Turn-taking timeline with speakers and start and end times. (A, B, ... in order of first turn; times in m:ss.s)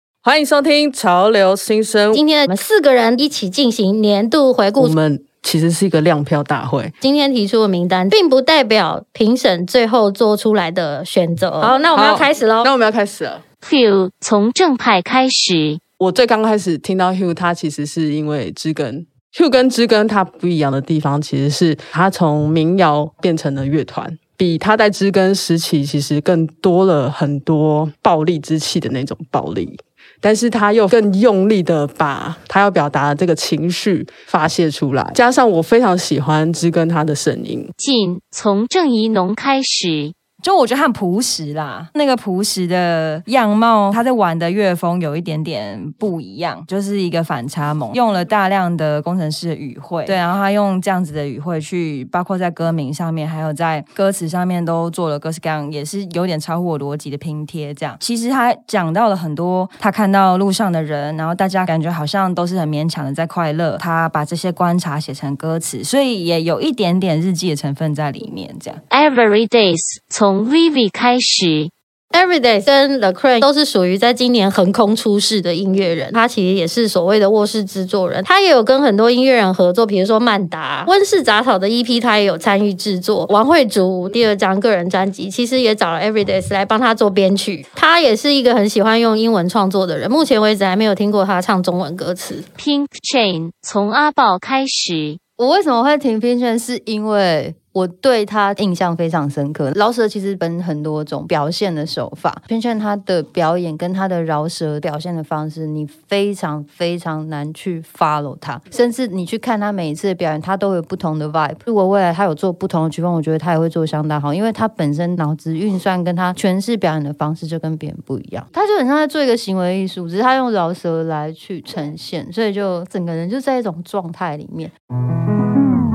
0:00.2-0:02.2 A
0:02.2-0:05.0 B
0:04.8-0:06.9 A
0:07.0-0:12.7 B
0:11.9-0:13.4 A
0:13.6-0:15.8 C
0:16.0-0:37.7 A
0:37.8-0:40.1 C
0:40.4-1:08.8 D
1:08.9-1:11.7 C
1:12.1-1:32.4 B
1:32.6-1:35.2 C
1:35.4-2:04.7 E